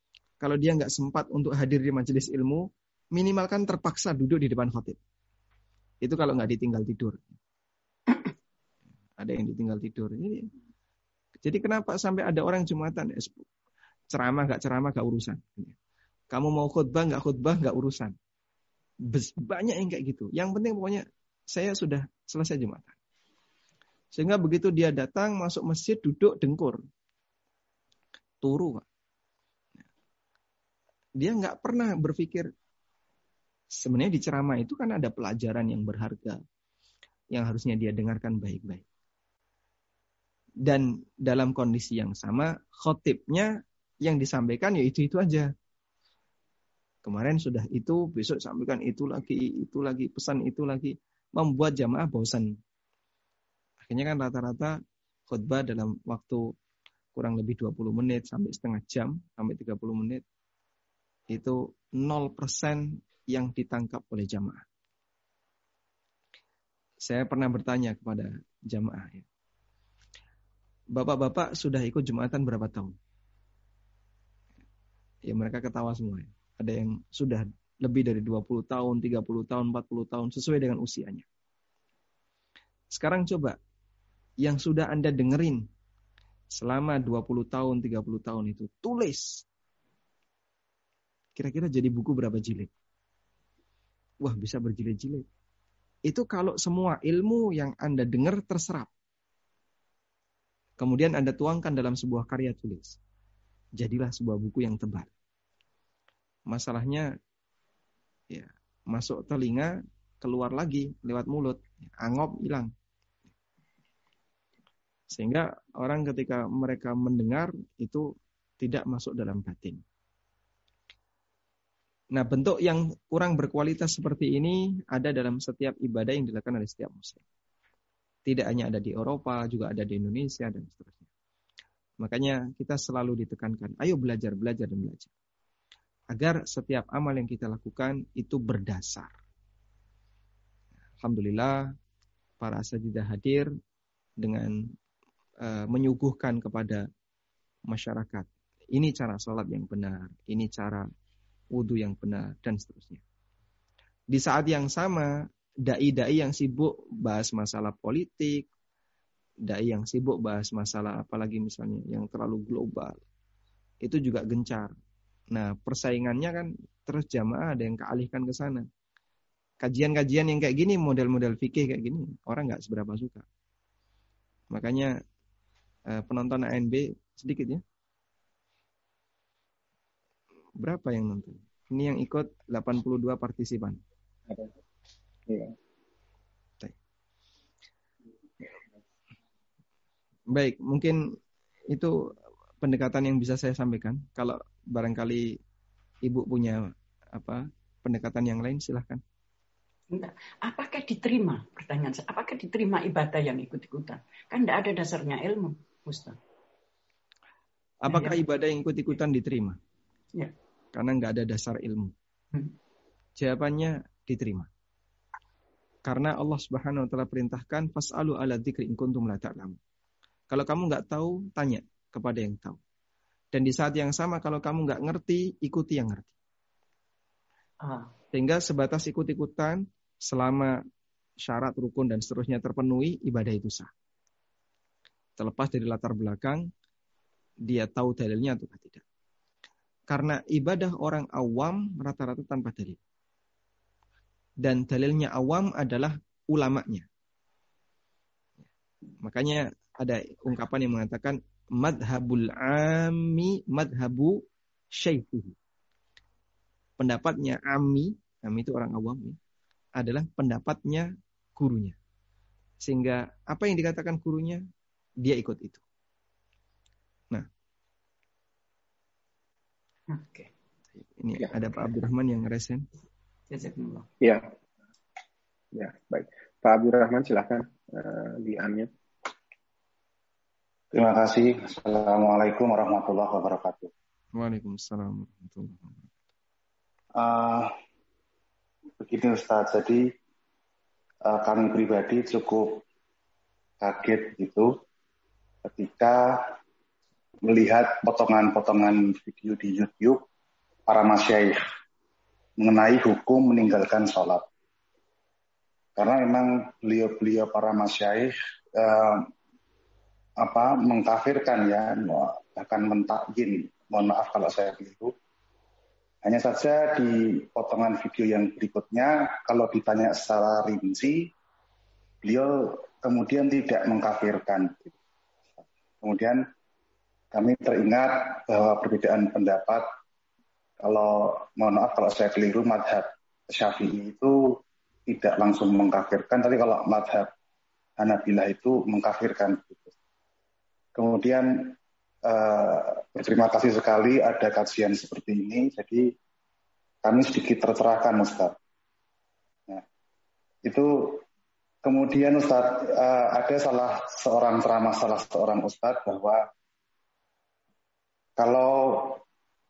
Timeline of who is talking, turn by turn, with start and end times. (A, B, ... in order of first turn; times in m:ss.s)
0:00.4-0:05.0 A
0:06.0-0:07.4 A
0:09.2-0:10.5 A
0:11.4-0:13.4 A
0:14.1-0:15.7 A
0:16.3-0:18.1 A
0:19.1-0:22.9 A
0:24.1-0:26.8 A
0:28.4-0:28.8 A
0:31.2-0:32.5 A
0:33.7-0:36.4 A
0:37.3-0:38.8 A
0:40.6-0:45.5 A
0:47.0-0:52.5 A
0:53.8-0:56.5 A
0:57.1-1:00.2 A
1:01.3-1:04.6 A
1:07.0-1:09.2 A
1:10.9-1:12.9 A
1:15.2-1:21.2 A
1:22.9-1:23.6 A
1:24.4-1:25.6 A
1:26.5-1:29.4 A
1:31.4-1:32.7 A
1:34.2-1:35.2 A
1:36.1-1:38.9 A
1:40.8-1:43.0 A
1:43.8-1:45.1 A
1:46.5-1:47.1 A
1:48.3-1:52.7 A
1:55.1-1:59.8 A
2:02.1-2:07.2 A
2:08.2-2:11.0 A
2:12.0-2:15.1 A
2:16.1-2:19.1 A
2:21.0-2:21.7 A
2:22.4-2:23.5 A
2:24.2-2:24.6 A
2:25.4-2:26.9 A
2:27.7-2:30.8 A
2:31.5-2:33.0 A
2:34.1-2:38.5 A
2:39.4-2:43.0 A
2:43.8-2:44.7 A
2:45.3-2:48.6 A
2:49.6-2:53.2 A
2:54.5-2:54.9 A
2:55.9-2:57.6 A
3:00.6-3:03.8 A
3:05.3-3:05.5 B
3:10.3-3:11.0 A
3:12.6-3:15.4 A
3:16.0-3:19.0 A
3:19.9-3:26.2 C
3:27.8-3:29.6 A
3:27.9-3:28.2 C
3:30.7-3:31.9 A
3:33.2-3:34.5 A
3:35.8-3:39.6 A
3:40.3-3:42.6 A
3:43.3-3:46.1 A
3:47.6-3:47.9 C
3:48.1-3:50.6 A
3:51.2-3:53.7 A
3:55.2-3:56.5 A
3:57.4-3:58.8 A
3:59.9-4:02.8 A
4:04.4-4:06.9 A
4:09.0-4:15.4 A
4:16.8-4:19.2 A
4:19.8-4:21.8 A
4:22.6-4:24.4 A
4:25.0-4:25.6 A
4:29.9-4:30.3 C
4:31.0-4:32.7 A
4:33.3-4:33.9 C
4:35.5-4:38.7 B
4:40.7-4:43.7 D
4:44.1-4:45.8 A
4:46.9-4:47.5 D
4:48.8-4:49.9 D
4:51.0-4:52.6 D
4:53.6-4:54.5 D
4:55.4-4:56.3 D
4:57.2-5:00.0 D
5:00.7-5:01.4 D
5:02.4-5:04.2 D
5:05.8-5:09.1 D
5:10.2-5:14.9 D
5:16.0-5:21.1 D
5:22.0-5:24.7 D
5:25.8-5:26.2 D
5:27.1-5:29.6 D
5:30.6-5:34.1 D
5:34.9-5:37.1 D
5:37.8-5:39.7 D
5:40.7-5:41.5 D
5:42.0-5:45.9 D
5:46.8-5:48.4 D
5:50.4-5:51.0 D
5:51.6-5:56.2 D
5:58.2-5:59.0 D